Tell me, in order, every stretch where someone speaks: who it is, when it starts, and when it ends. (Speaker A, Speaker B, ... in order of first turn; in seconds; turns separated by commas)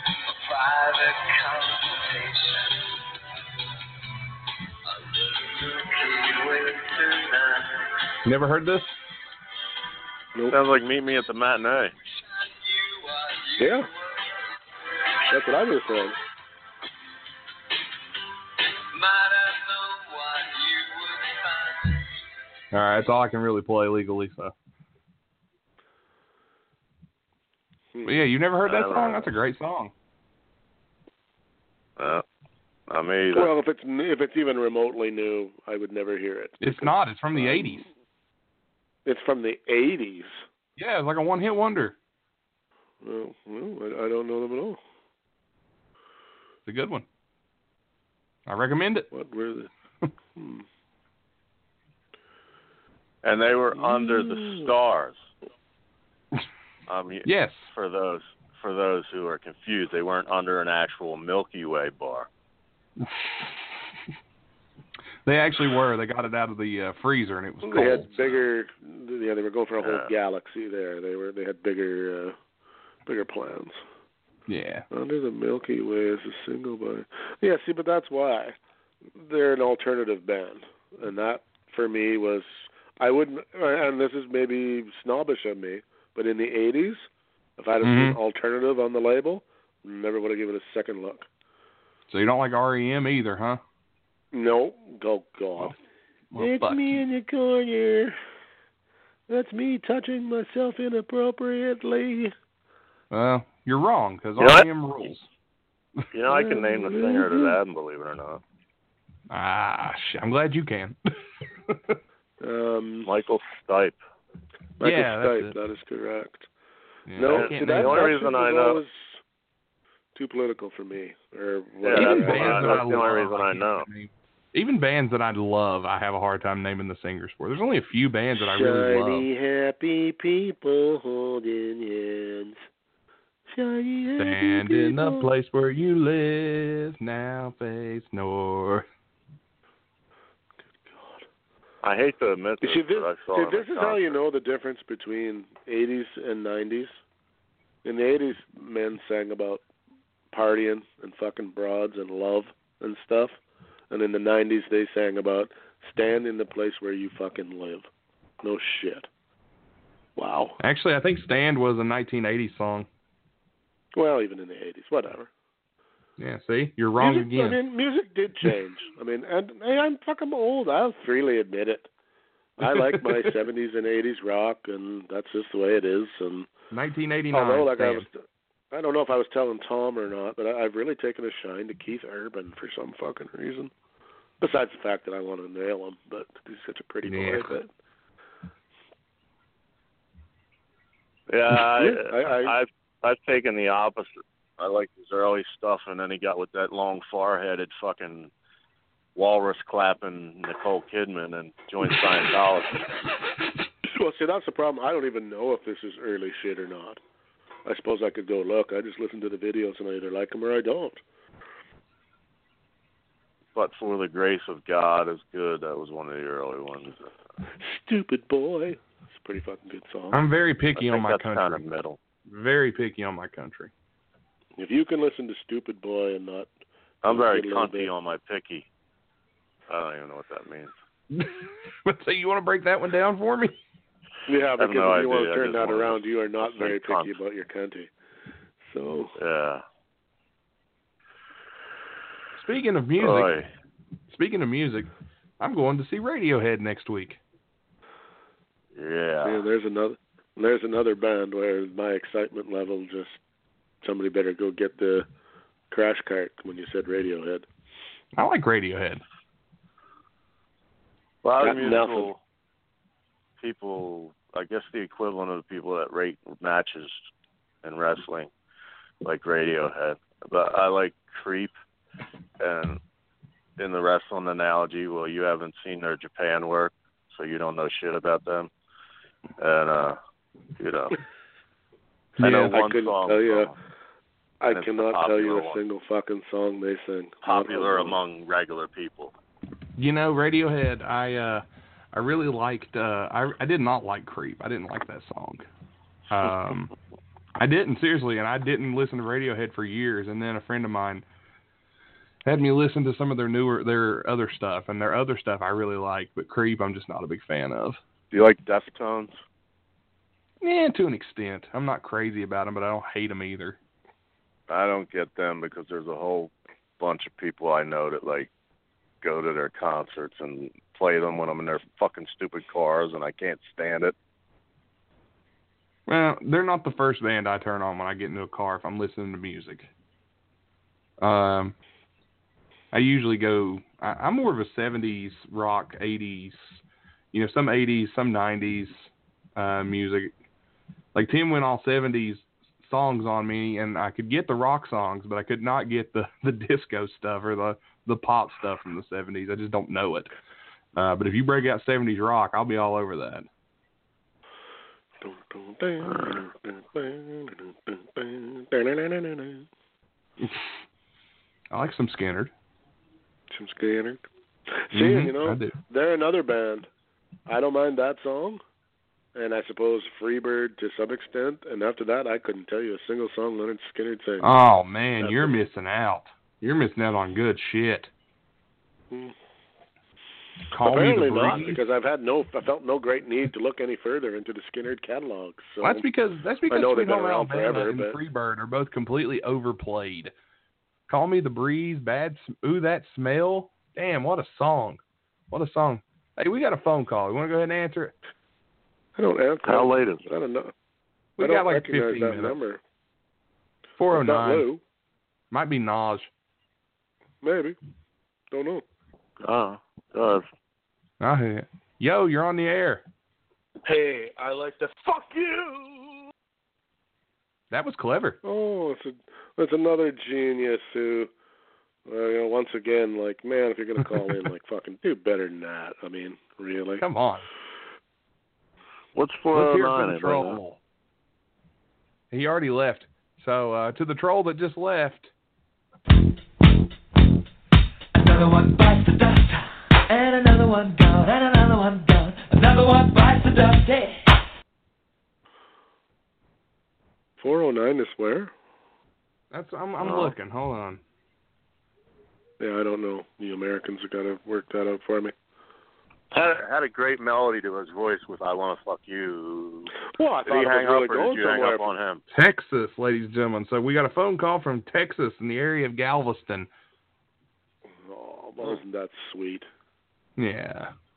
Speaker A: 0.2-3.0, Speaker A: 4.8-8.0, Speaker B: 8.2-8.9, Speaker C: 10.5-11.9, Speaker A: 12.0-15.6, Speaker D: 13.6-13.9, Speaker D: 15.3-16.2, Speaker A: 18.9-22.2, Speaker B: 22.7-24.5, Speaker B: 28.0-29.9, Speaker C: 28.6-29.3, Speaker C: 32.0-32.2, Speaker C: 32.9-33.5, Speaker D: 33.3-37.8, Speaker B: 36.6-37.9, Speaker D: 39.0-40.4, Speaker B: 40.8-42.0, Speaker D: 43.0-44.8, Speaker B: 46.6-47.0, Speaker B: 48.5-49.1, Speaker D: 49.1-49.7, Speaker D: 50.3-50.6, Speaker C: 53.2-55.2, Speaker D: 53.8-54.7, Speaker C: 56.9-62.3, Speaker B: 57.2-57.7, Speaker B: 63.0-63.5, Speaker B: 65.2-68.4, Speaker D: 67.6-72.4, Speaker C: 69.8-70.1, Speaker D: 73.0-73.8, Speaker B: 74.5-74.8, Speaker D: 74.9-78.6, Speaker D: 79.1-91.3, Speaker B: 87.8-88.2, Speaker B: 92.1-93.6, Speaker D: 94.3-95.8, Speaker B: 96.3-96.9, Speaker D: 96.4-98.2, Speaker D: 99.3-102.3, Speaker B: 103.1-105.3, Speaker C: 104.4-104.7, Speaker C: 106.1-108.4, Speaker D: 106.3-107.5, Speaker B: 109.3-111.0, Speaker B: 111.7-112.0, Speaker D: 112.4-113.1, Speaker C: 113.0-114.0, Speaker D: 114.8-116.5, Speaker B: 114.8-115.5, Speaker B: 117.1-118.1, Speaker D: 117.1-119.2, Speaker C: 117.3-118.8, Speaker D: 120.1-123.1, Speaker C: 121.8-123.9, Speaker B: 121.9-129.3, Speaker D: 128.4-132.6, Speaker D: 133.5-135.3, Speaker B: 134.2-138.8, Speaker D: 140.7-141.2, Speaker C: 141.8-144.1, Speaker D: 142.6-147.0, Speaker D: 147.8-149.6, Speaker D: 150.3-153.4, Speaker D: 153.9-157.9, Speaker D: 158.4-159.1, Speaker D: 160.2-160.6, Speaker B: 160.6-162.9, Speaker D: 163.9-165.3, Speaker B: 166.2-167.6, Speaker D: 167.0-171.9, Speaker D: 172.6-176.5, Speaker B: 172.7-173.0, Speaker B: 176.7-178.1, Speaker D: 177.3-183.7, Speaker D: 184.4-187.7, Speaker B: 187.0-187.6, Speaker C: 191.3-198.3, Speaker D: 191.6-192.6, Speaker C: 199.2-202.8, Speaker D: 203.8-207.0, Speaker D: 207.6-211.0, Speaker C: 213.5-217.1, Speaker D: 217.6-220.2, Speaker B: 220.1-221.6, Speaker C: 220.8-222.0, Speaker B: 222.3-223.7, Speaker D: 224.6-226.5, Speaker D: 227.0-227.9, Speaker C: 227.0-228.7, Speaker C: 229.7-230.7, Speaker B: 231.1-233.6, Speaker D: 234.3-237.9, Speaker C: 234.6-237.1, Speaker D: 238.6-239.1, Speaker C: 239.2-239.6, Speaker B: 242.3-243.3, Speaker C: 243.0-243.5, Speaker B: 244.1-244.9, Speaker B: 245.4-247.2, Speaker C: 248.7-249.4, Speaker D: 249.2-253.2, Speaker D: 253.8-255.1, Speaker D: 255.7-257.5, Speaker B: 258.1-259.0, Speaker C: 261.2-262.2, Speaker D: 261.4-262.1, Speaker C: 263.4-267.1, Speaker C: 267.6-268.3, Speaker C: 269.0-271.5, Speaker C: 272.4-272.8, Speaker C: 273.6-278.5, Speaker C: 279.4-280.0, Speaker C: 280.6-280.9, Speaker B: 282.2-282.6, Speaker C: 282.2-283.6, Speaker D: 282.5-283.5, Speaker D: 284.4-288.0, Speaker C: 284.5-285.6, Speaker C: 287.2-289.1, Speaker B: 289.8-295.4, Speaker B: 296.1-296.7, Speaker B: 297.4-301.0, Speaker B: 302.2-307.8, Speaker C: 308.1-309.2, Speaker B: 310.4-313.6, Speaker C: 314.5-318.3, Speaker C: 319.0-323.9, Speaker B: 325.9-329.7, Speaker B: 331.0-331.5, Speaker B: 332.7-336.6, Speaker B: 337.1-340.1, Speaker B: 340.9-350.1, Speaker B: 350.7-353.3, Speaker D: 355.0-359.5, Speaker B: 361.5-362.3, Speaker D: 363.3-366.7, Speaker B: 364.7-365.5, Speaker D: 367.3-368.4, Speaker D: 369.1-374.3, Speaker B: 374.2-377.9, Speaker D: 375.0-375.4, Speaker B: 380.5-381.6, Speaker D: 380.6-385.9, Speaker B: 385.6-390.1, Speaker D: 386.5-388.0, Speaker B: 390.9-394.8, Speaker B: 395.3-397.9, Speaker D: 399.0-400.5, Speaker C: 399.4-400.0, Speaker B: 401.2-402.4, Speaker D: 401.2-402.6, Speaker B: 403.8-404.4, Speaker D: 403.9-404.6, Speaker B: 405.3-406.1, Speaker D: 407.2-407.6, Speaker D: 408.3-408.6, Speaker C: 409.2-410.2, Speaker B: 411.0-412.8, Speaker D: 413.6-416.0, Speaker B: 417.5-418.2, Speaker D: 418.2-421.1, Speaker D: 421.9-426.9, Speaker B: 426.8-427.2, Speaker C: 428.9-430.4, Speaker B: 429.3-430.6, Speaker B: 432.1-435.1, Speaker E: 437.9-444.1, Speaker D: 447.2-448.3, Speaker B: 449.3-450.8, Speaker C: 449.8-450.1, Speaker D: 452.4-455.1, Speaker C: 456.1-459.7, Speaker D: 459.8-461.7, Speaker C: 460.2-462.0, Speaker B: 462.1-466.5, Speaker D: 467.8-469.5, Speaker B: 470.2-470.7